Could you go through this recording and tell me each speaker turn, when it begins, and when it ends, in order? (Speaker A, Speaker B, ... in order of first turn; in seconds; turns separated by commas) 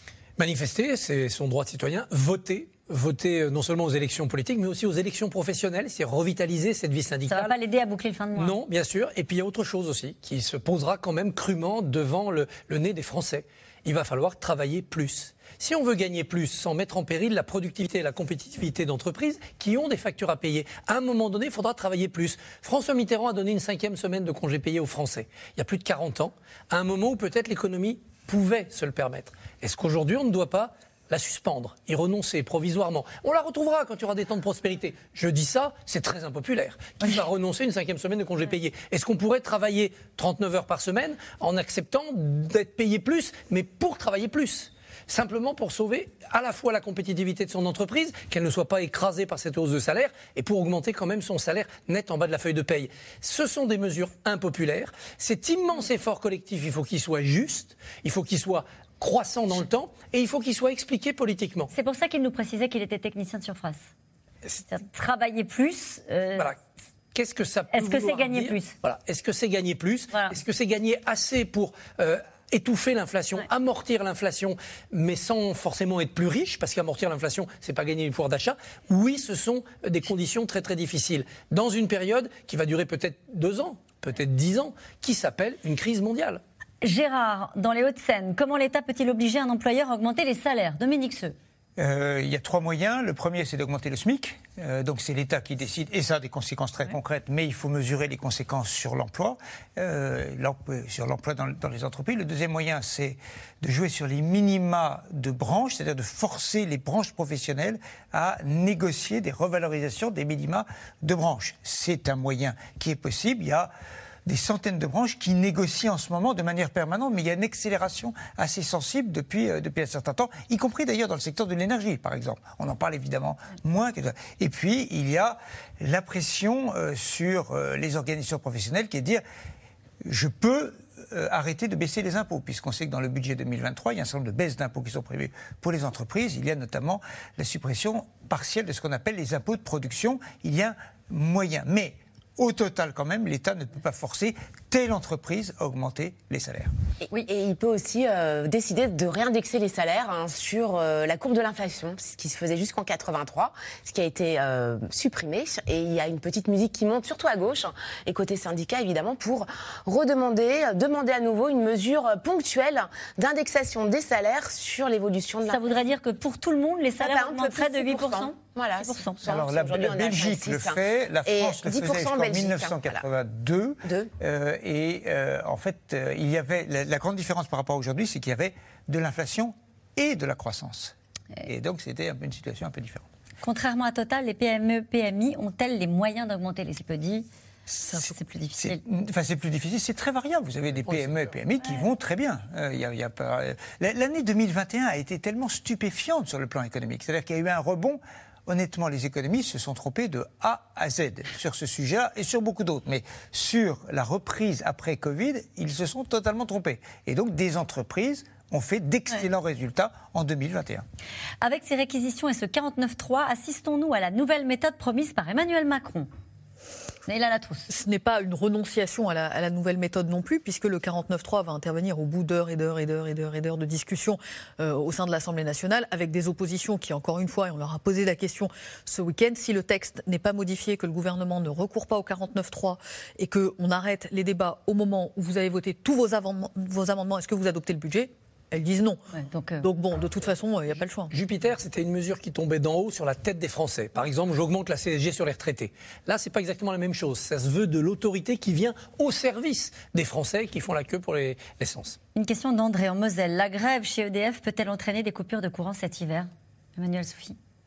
Speaker A: 0.4-7.5, Speaker B: 7.3-8.6, Speaker A: 8.4-61.7, Speaker B: 61.7-63.9, Speaker B: 64.7-66.5, Speaker A: 67.1-86.4, Speaker B: 67.7-68.7, Speaker B: 86.8-91.3, Speaker C: 91.8-113.7, Speaker C: 114.3-129.2, Speaker C: 130.0-146.7, Speaker D: 147.2-165.8, Speaker B: 165.5-169.2, Speaker D: 167.0-173.0, Speaker C: 169.2-180.9, Speaker D: 173.8-174.1, Speaker C: 181.4-183.1, Speaker B: 183.4-187.3, Speaker B: 187.8-188.8, Speaker C: 188.6-210.8, Speaker A: 190.9-191.3, Speaker B: 211.4-216.1, Speaker B: 217.1-217.7, Speaker E: 217.7-239.0, Speaker B: 239.1-239.7, Speaker E: 239.6-241.1, Speaker A: 241.1-252.0, Speaker B: 252.2-257.4